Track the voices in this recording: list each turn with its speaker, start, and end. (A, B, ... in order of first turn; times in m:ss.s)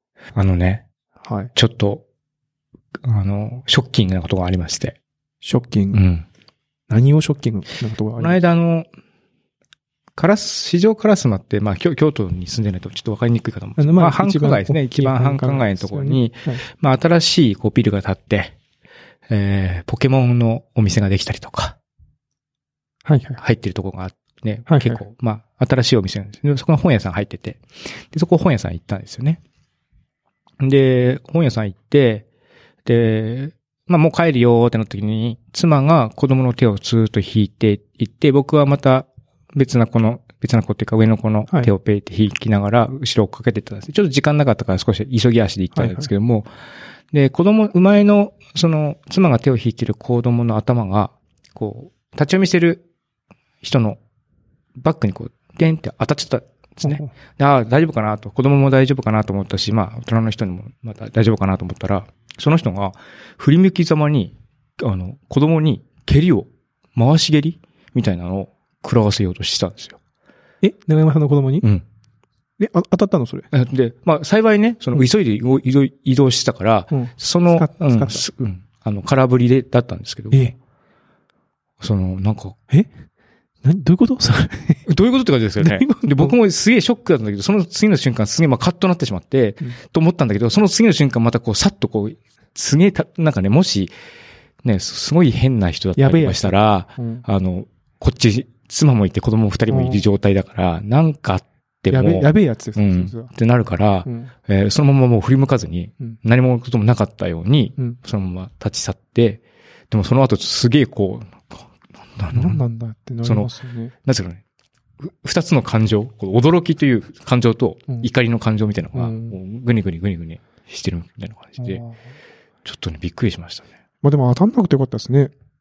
0:00.3-0:00.8 A
0:01.2-0:01.5 B
0:01.5-0:02.0 A
0:03.0-0:05.0 A
0:05.4-0:06.0 B
0:05.9-0:06.2 A
0:06.9-0:08.4 B
0:08.2-0:08.9 A
0:10.2-0:18.5 A
0:13.8-0:16.6 B
0:19.3-0:21.8 A
0:23.0-0:23.4 B
0:23.4-0:29.4 A
0:24.7-0:25.0 B
0:30.6-0:32.2 A
0:32.8-0:46.5 A
0:45.7-0:46.1 B
0:47.1-0:52.8 A
0:53.6-0:54.0 A
0:54.8-1:10.0 A
0:56.8-0:57.1 B
1:10.6-1:11.6 B
1:12.6-1:13.5 B
1:13.5-1:20.5 A
1:16.9-1:18.5 B
1:21.8-1:22.6 A
1:23.6-1:24.8 B
1:24.8-1:33.9 A
1:25.6-1:26.3 B
1:34.6-1:52.6 A
1:36.0-1:37.2 B
1:39.7-1:40.0 B
1:41.9-1:43.3 B
1:52.3-1:53.9 B
1:53.2-1:53.5 A
1:54.0-1:54.4 A
1:55.0-2:01.8 A
1:58.9-1:59.3 B
2:01.6-2:02.0 B
2:02.6-2:03.7 A
2:04.0-2:05.3 B